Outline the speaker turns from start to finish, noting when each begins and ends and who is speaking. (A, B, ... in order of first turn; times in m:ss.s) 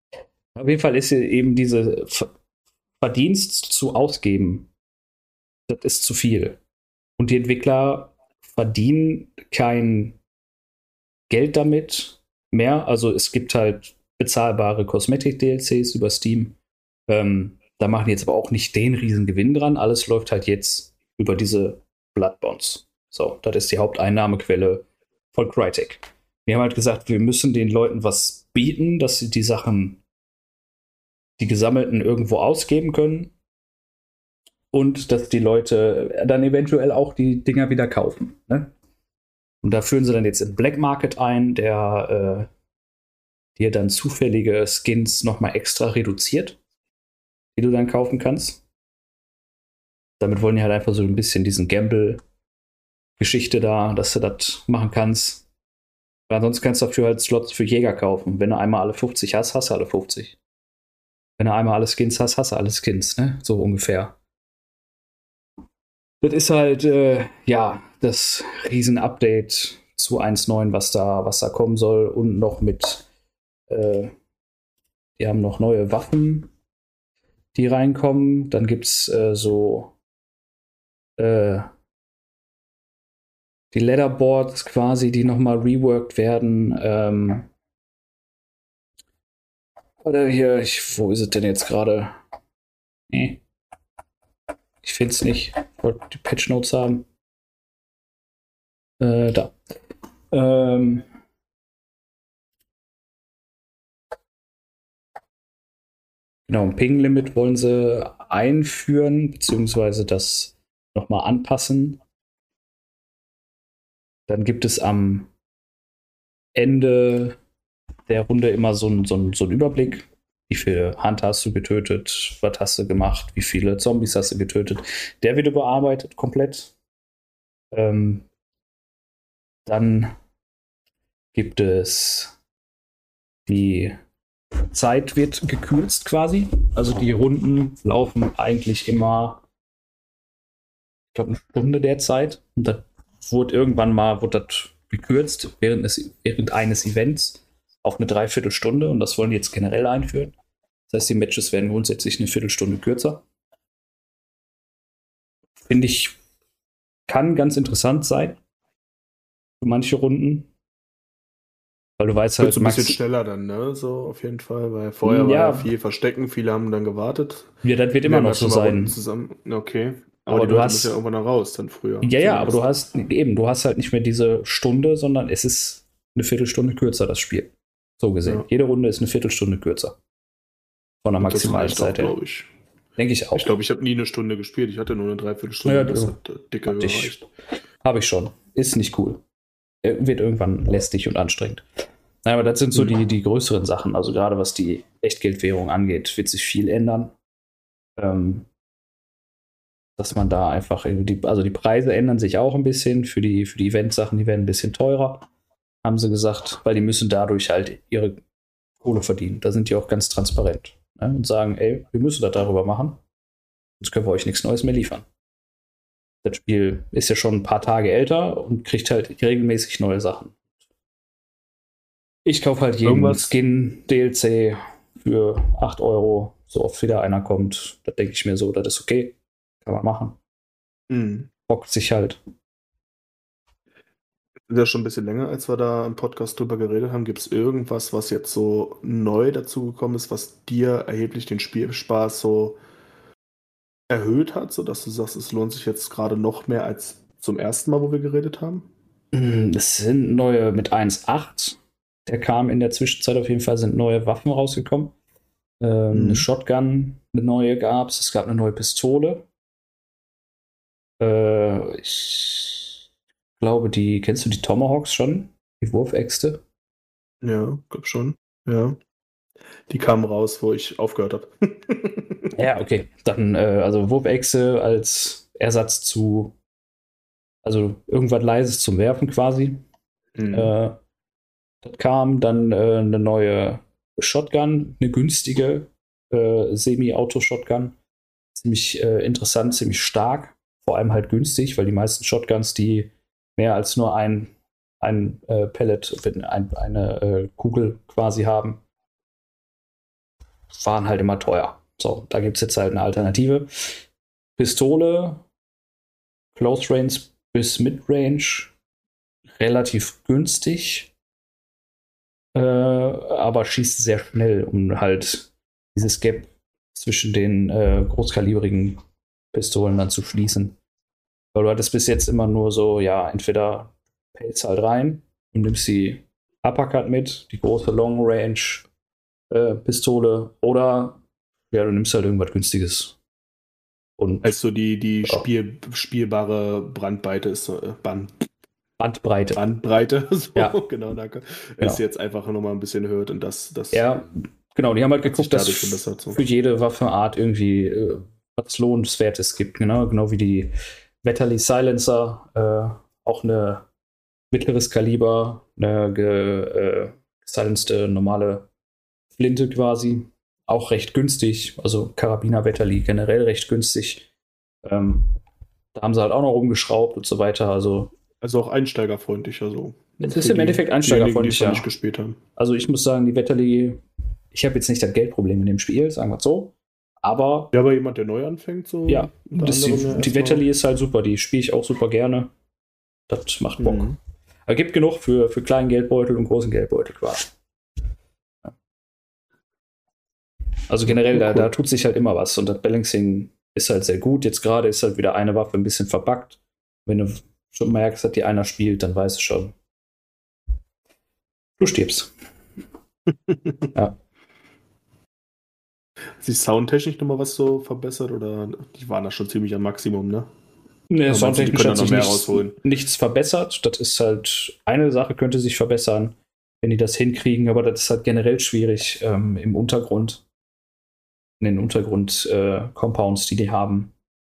0:00.6-0:02.3 A
0:03.0-0:04.7 A
0:05.7-0:06.6 A
0:07.2-0:10.2 A
0:11.3-0:16.6 A
0:17.1-0:30.0 A
0:31.4-0:33.3 A
0:34.7-0:38.7 A
0:39.6-0:42.5 A
0:43.6-0:46.6 A
0:47.6-0:48.6 A
0:50.2-0:52.2 A
0:53.2-0:55.4 A
0:56.3-1:00.4 A
1:01.4-1:04.2 A
1:06.2-1:13.0 A
1:13.7-1:14.1 A
1:15.2-1:16.5 A
1:17.5-1:19.9 A
1:21.2-1:21.7 A
1:23.7-1:27.5 A
1:30.0-1:32.2 A
1:33.1-1:33.4 A
1:34.8-1:37.1 A
1:39.0-1:39.6 A
1:40.3-1:41.1 A
1:46.5-1:52.0 A
1:54.3-1:55.3 A
1:56.6-1:57.4 A
1:58.1-2:06.7 A
2:07.7-2:08.3 A
2:09.7-2:10.2 A
2:11.3-2:12.3 A
2:13.5-2:14.0 A
2:14.7-2:19.4 A
2:21.1-2:30.3 A
2:30.9-2:33.2 A
2:35.7-2:36.2 A
2:37.1-2:38.4 A
2:39.6-2:40.5 A
2:42.0-2:43.0 A
2:42.4-2:52.6 B
2:45.0-2:45.7 A
2:47.6-2:49.0 A
2:50.3-2:51.0 A
2:52.0-3:00.0 A
3:01.0-3:02.2 A
3:01.2-3:02.5 B
3:03.0-3:03.5 A
3:03.4-3:07.3 B
3:05.6-3:07.2 A
3:07.8-3:09.2 A
3:09.8-3:11.6 A
3:12.2-3:17.1 A
3:18.0-3:18.5 A
3:20.0-3:25.3 A
3:25.8-3:28.2 A
3:28.8-3:33.0 A
3:33.8-3:35.0 A
3:36.2-3:40.4 A
3:42.2-3:50.2 A
3:42.8-3:43.3 B
3:50.9-3:51.3 B
3:51.5-3:52.2 A
3:54.5-4:02.6 B
4:03.9-4:08.7 B
4:09.1-4:14.9 A
4:15.6-4:19.3 A
4:15.9-4:16.3 B
4:21.0-4:22.7 A
4:23.4-4:26.4 A
4:27.2-4:28.8 B
4:29.7-4:32.3 B
4:32.4-4:36.4 A
4:37.4-4:39.6 A
4:40.2-4:40.5 B
4:40.3-4:40.8 A
4:41.6-4:47.8 A
4:48.4-4:58.6 A
5:00.5-5:03.8 A
5:04.4-5:05.2 A
5:06.4-5:08.5 A
5:09.4-5:10.9 A
5:12.4-5:18.8 A
5:19.3-5:20.6 A
5:21.3-5:28.7 A
5:29.3-5:31.0 A
5:31.5-5:33.0 A
5:34.0-5:34.3 A
5:34.2-5:38.2 B
5:38.8-5:39.4 A
5:39.4-5:43.9 B
5:43.7-5:50.5 A
5:45.1-5:46.2 B
5:51.0-5:53.6 A
5:54.3-5:58.5 A
5:59.1-6:04.1 A
6:04.6-6:05.2 A
6:05.7-6:07.9 A
6:08.2-6:12.2 B
6:10.0-6:11.7 A
6:12.4-6:13.8 A
6:14.3-6:17.5 A
6:17.5-6:20.5 B
6:18.9-6:22.3 A
6:23.1-6:23.9 A
6:23.6-6:24.0 B
6:24.5-6:27.3 A
6:30.7-6:39.5 A
6:30.9-6:31.5 B
6:41.6-6:42.1 A
6:46.2-6:50.3 B
6:50.9-7:00.2 A
6:51.1-6:52.6 B
7:01.4-7:03.9 A